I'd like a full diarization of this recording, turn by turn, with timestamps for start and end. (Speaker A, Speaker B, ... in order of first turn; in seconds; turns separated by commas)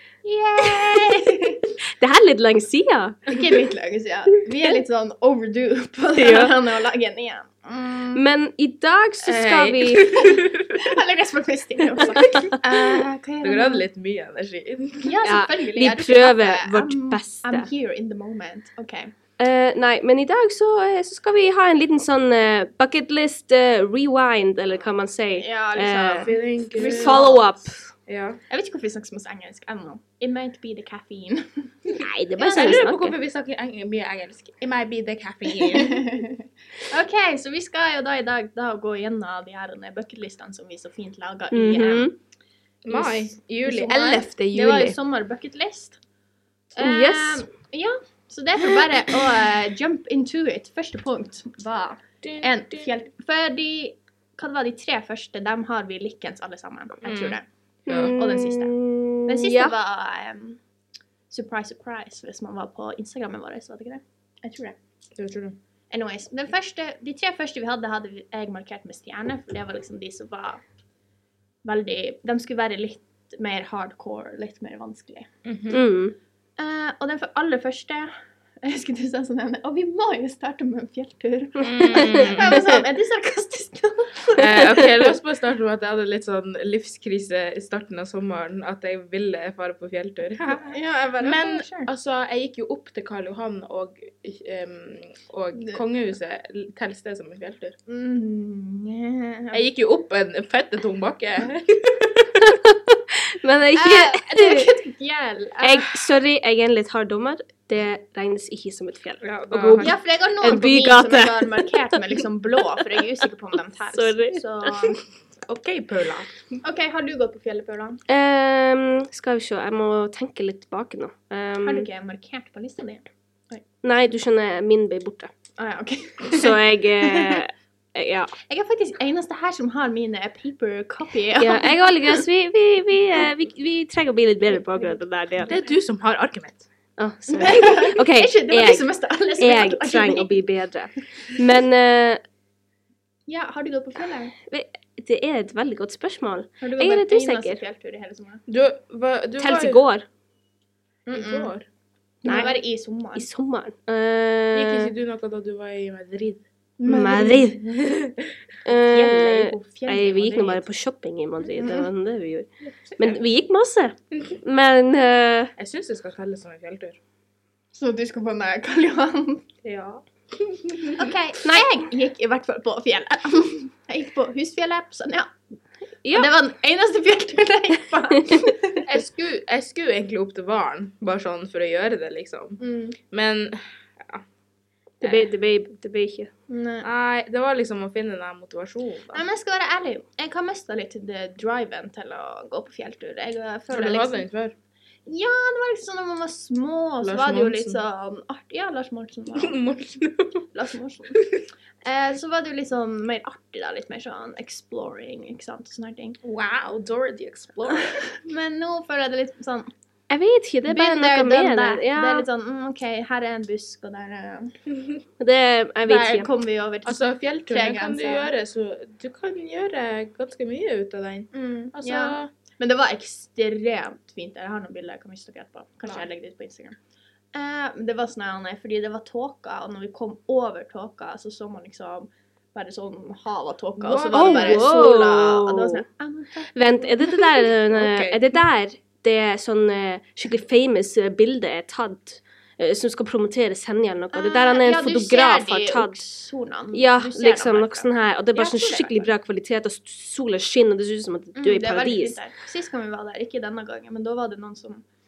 Speaker A: 0.2-1.7, Speaker B: 0.8-1.1, Speaker B: 2.0-3.3, Speaker A: 3.3-8.2, Speaker B: 6.2-6.5, Speaker B: 8.2-10.3, Speaker C: 9.2-10.9, Speaker A: 10.2-13.8, Speaker C: 12.6-15.2, Speaker A: 15.0-19.1, Speaker B: 15.2-17.7, Speaker B: 19.4-27.9, Speaker A: 25.4-27.6, Speaker C: 26.2-27.3, Speaker C: 28.1-28.4, Speaker A: 28.5-32.9, Speaker B: 31.9-33.1, Speaker C: 32.4-36.2, Speaker A: 35.5-42.1, Speaker B: 41.5-42.1, Speaker C: 42.9-45.0, Speaker A: 42.9-46.0, Speaker A: 46.8-57.5, Speaker B: 46.8-47.5, Speaker C: 52.2-52.9, Speaker C: 57.0-57.4, Speaker B: 57.9-59.7, Speaker C: 57.9-58.1, Speaker A: 58.1-58.7, Speaker A: 59.3-60.6, Speaker A: 61.3-64.8, Speaker C: 65.2-65.6, Speaker A: 65.9-70.6, Speaker A: 71.6-75.3, Speaker C: 75.5-75.8, Speaker B: 75.7-76.2, Speaker A: 76.6-85.1, Speaker C: 81.6-82.8, Speaker B: 81.9-82.3, Speaker C: 84.4-97.8, Speaker A: 90.5-91.9, Speaker A: 97.9-99.6, Speaker C: 99.5-102.5, Speaker B: 102.4-104.7, Speaker A: 103.8-105.9, Speaker B: 105.6-111.8, Speaker C: 109.2-110.0, Speaker A: 109.8-115.0, Speaker B: 113.9-114.9, Speaker C: 115.5-116.3, Speaker A: 116.6-118.0, Speaker B: 118.1-121.9, Speaker A: 121.6-123.6, Speaker B: 123.8-125.3, Speaker A: 125.6-127.4, Speaker B: 126.3-128.3, Speaker A: 128.5-132.2, Speaker B: 131.4-135.5, Speaker C: 135.5-136.7, Speaker B: 137.0-138.9, Speaker A: 137.3-140.4, Speaker B: 139.4-142.2, Speaker A: 143.3-144.3, Speaker B: 144.5-147.6, Speaker A: 146.6-148.4, Speaker C: 148.5-149.8, Speaker B: 149.4-150.1, Speaker A: 151.1-151.5, Speaker C: 151.1-151.7, Speaker A: 152.2-153.2, Speaker B: 152.2-152.5, Speaker B: 153.2-154.9, Speaker C: 154.5-158.3, Speaker A: 156.8-157.5, Speaker B: 156.9-157.6, Speaker B: 158.7-162.5, Speaker A: 158.7-160.7, Speaker A: 161.6-161.9, Speaker B: 163.0-165.5, Speaker C: 165.6-167.0, Speaker A: 167.7-169.5, Speaker C: 169.6-171.1, Speaker A: 171.0-175.3, Speaker B: 176.1-176.3, Speaker A: 176.1-178.9, Speaker C: 178.9-182.6, Speaker A: 182.6-183.0, Speaker C: 183.1-184.2, Speaker B: 185.0-186.3, Speaker A: 186.5-186.9, Speaker C: 186.8-189.2, Speaker A: 189.1-194.3, Speaker C: 193.7-194.6, Speaker A: 195.1-199.6, Speaker C: 197.0-197.8, Speaker C: 199.3-200.4, Speaker A: 200.5-201.2, Speaker C: 201.2-201.4, Speaker A: 201.8-206.2, Speaker C: 206.2-208.1, Speaker A: 207.7-209.7, Speaker B: 210.1-212.3, Speaker A: 210.7-214.6, Speaker B: 215.2-216.3, Speaker A: 215.8-218.3, Speaker C: 216.8-222.3, Speaker A: 221.3-226.8, Speaker A: 227.3-237.2, Speaker C: 233.8-234.8, Speaker B: 234.1-235.8, Speaker B: 236.5-246.0, Speaker C: 237.7-238.2, Speaker A: 244.1-249.1, Speaker B: 246.7-252.2, Speaker A: 251.4-254.8